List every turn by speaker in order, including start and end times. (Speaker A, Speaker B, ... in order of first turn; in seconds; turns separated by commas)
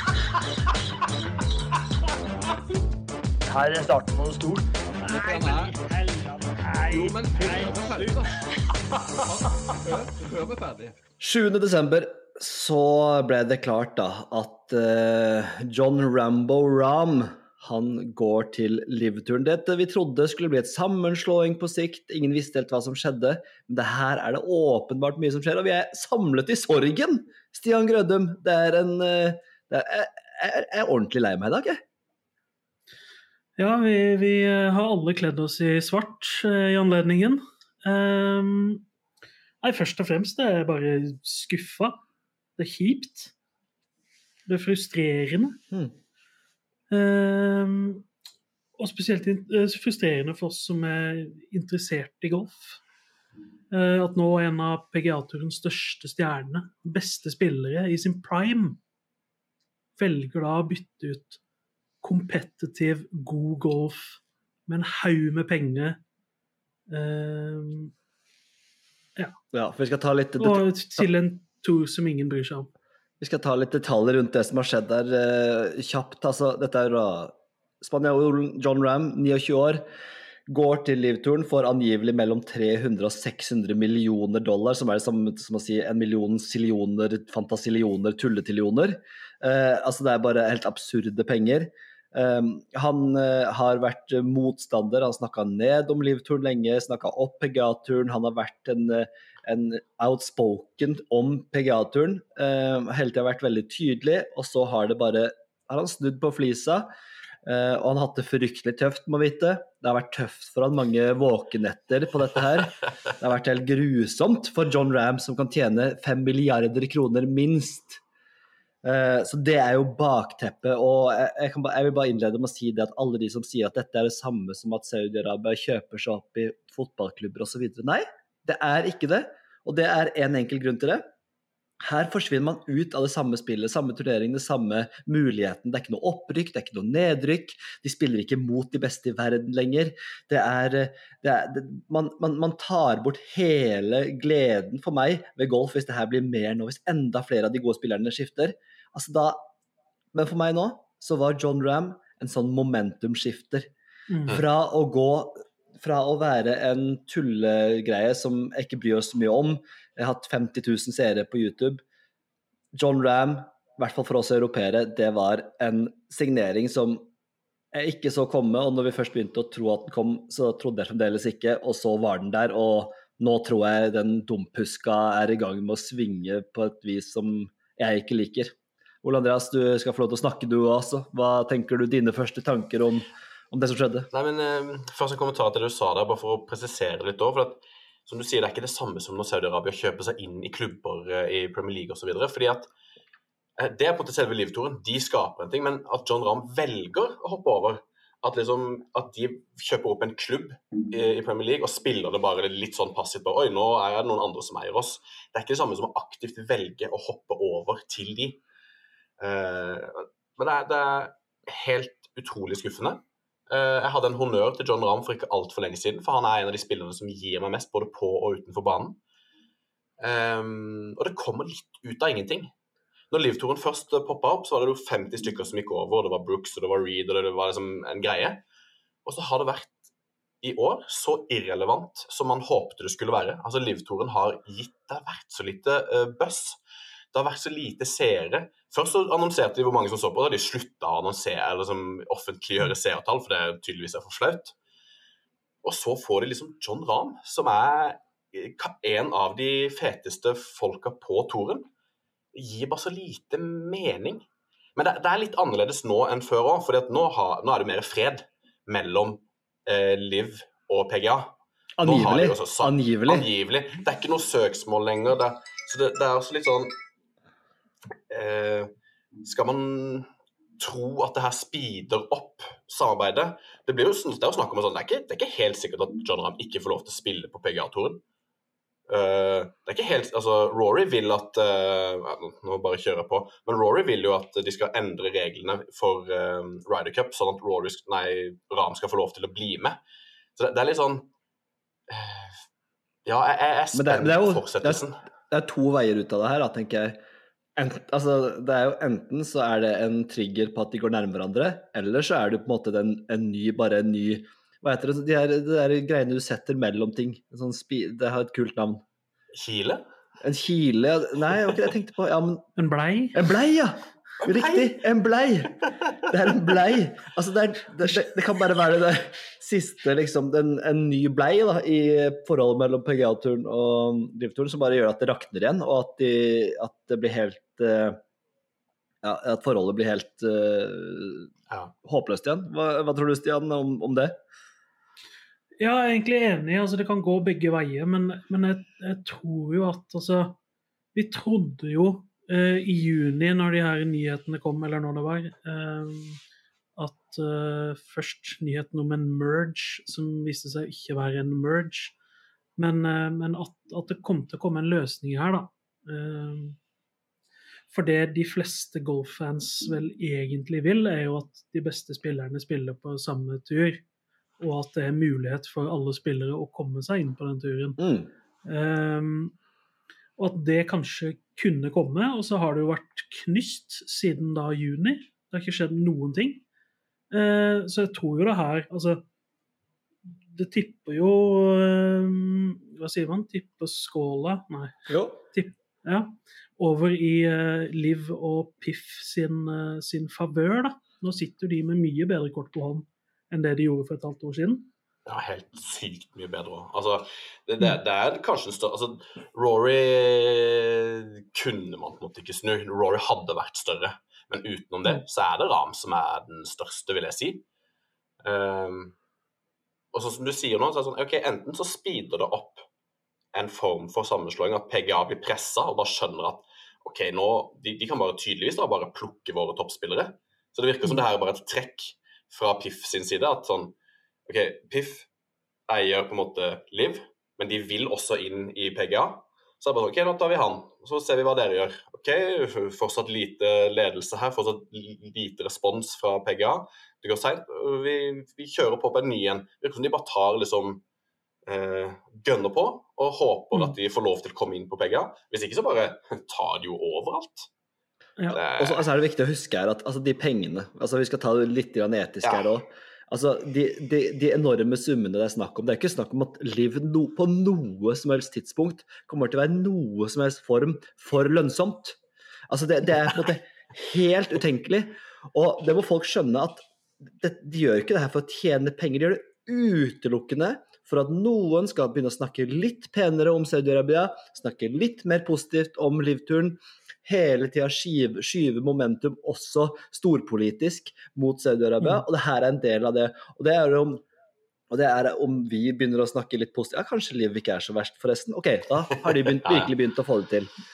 Speaker A: 3.5-8.3, Speaker B: 5.1-5.8, Speaker B: 7.0-8.3, Speaker B: 9.9-10.9, Speaker A: 9.9-10.4, Speaker C: 11.2-31.8, Speaker D: 33.6-38.9, Speaker D: 39.6-42.0, Speaker D: 42.6-43.3, Speaker D: 44.5-45.6, Speaker D: 46.9-48.1, Speaker D: 48.8-52.8, Speaker D: 53.7-58.8, Speaker D: 60.0-61.4, Speaker D: 62.0-66.0, Speaker D: 66.9-67.9, Speaker C: 69.5-71.1, Speaker D: 70.4-72.7, Speaker C: 73.2-79.8, Speaker C: 80.5-106.9, Speaker C: 107.5-118.0, Speaker C: 118.8-131.0, Speaker C: 131.8-149.4, Speaker C: 150.1-153.7, Speaker D: 154.1-154.4, Speaker C: 154.3-161.8, Speaker C: 162.7-167.1, Speaker C: 167.7-178.5, Speaker C: 179.0-184.1, Speaker E: 184.1-192.7, Speaker E: 193.6-208.4, Speaker E: 209.2-219.0, Speaker E: 220.0-222.5, Speaker E: 223.1-228.4, Speaker E: 229.1-229.8, Speaker E: 230.4-236.6, Speaker E: 237.1-244.6, Speaker E: 245.6-251.7, Speaker E: 252.3-254.2, Speaker E: 254.8-266.7, Speaker C: 261.8-263.3, Speaker E: 268.1-268.7, Speaker E: 269.2-270.1, Speaker E: 270.6-278.0, Speaker E: 278.9-289.8, Speaker E: 290.4-291.1, Speaker E: 291.9-292.4, Speaker E: 293.1-295.0, Speaker C: 293.7-297.0, Speaker C: 297.6-308.8, Speaker E: 309.4-309.8, Speaker C: 310.2-312.4, Speaker D: 312.6-313.2, Speaker C: 313.1-328.0, Speaker E: 314.2-314.8, Speaker C: 329.0-331.3, Speaker C: 331.8-334.1, Speaker D: 335.6-340.4, Speaker D: 340.9-346.2, Speaker D: 346.8-352.0, Speaker D: 352.6-356.6, Speaker D: 357.7-363.8, Speaker D: 364.4-367.8, Speaker C: 367.8-368.1, Speaker D: 368.4-369.4, Speaker D: 370.2-376.4, Speaker D: 377.1-379.0, Speaker D: 380.3-384.8, Speaker C: 384.9-385.2, Speaker D: 385.3-394.7, Speaker E: 395.1-407.4, Speaker E: 408.2-408.9, Speaker E: 409.9-412.6, Speaker E: 413.3-423.8, Speaker E: 424.3-425.1, Speaker E: 425.7-440.8, Speaker E: 441.5-447.5, Speaker E: 448.3-448.9, Speaker C: 448.6-462.0, Speaker C: 462.5-466.6, Speaker C: 467.2-484.0, Speaker C: 484.7-490.5, Speaker E: 489.3-489.7